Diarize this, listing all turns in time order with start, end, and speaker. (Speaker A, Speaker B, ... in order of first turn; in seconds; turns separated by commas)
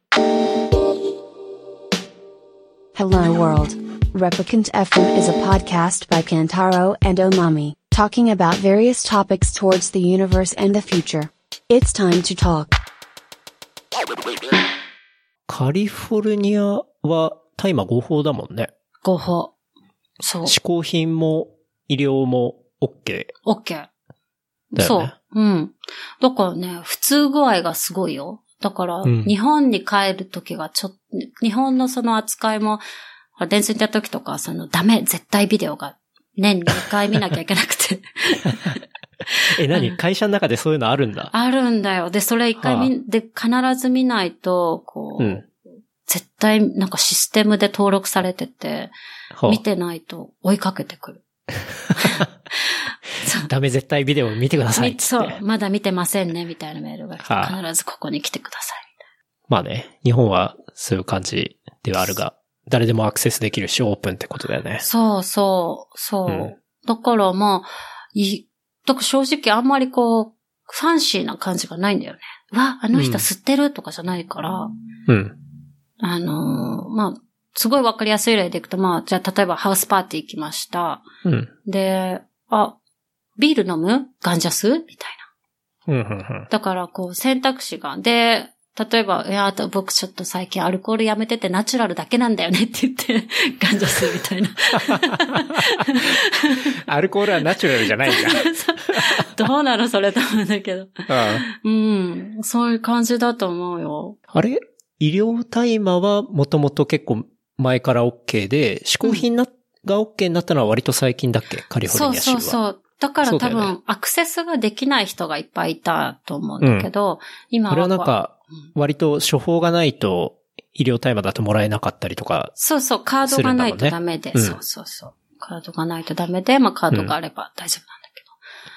Speaker A: 3.0-12.7, Speaker B: 15.5-18.7, Speaker C: 19.0-19.5, Speaker C: 20.2-20.6, Speaker B: 20.4-23.3, Speaker C: 23.4-23.9, Speaker C: 24.7-32.8, Speaker B: 24.8-25.1, Speaker B: 29.0-29.3, Speaker C: 33.4-38.8, Speaker C: 39.3-40.0, Speaker B: 39.5-41.3, Speaker C: 41.3-45.5, Speaker B: 42.6-42.9, Speaker B: 45.2-45.4, Speaker C: 46.1-48.9, Speaker B: 49.3-49.6, Speaker C: 49.5-51.2, Speaker C: 51.9-53.5, Speaker B: 53.5-55.4, Speaker C: 54.8-58.9, Speaker B: 57.3-57.6, Speaker B: 59.5-64.8, Speaker C: 64.8-74.7, Speaker B: 72.9-73.3, Speaker B: 75.1-75.4, Speaker C: 76.0-81.1, Speaker B: 81.2-81.5, Speaker C: 81.7-82.8, Speaker C: 83.4-85.3, Speaker B: 85.9-86.5, Speaker C: 86.5-96.7, Speaker B: 94.9-95.8, Speaker B: 96.7-99.0, Speaker C: 98.0-104.2, Speaker B: 101.1-101.4, Speaker B: 104.3-112.6, Speaker C: 111.9-118.1, Speaker B: 113.2-113.7, Speaker B: 116.6-116.9, Speaker B: 117.7-122.5, Speaker C: 122.6-128.3, Speaker B: 123.2-124.6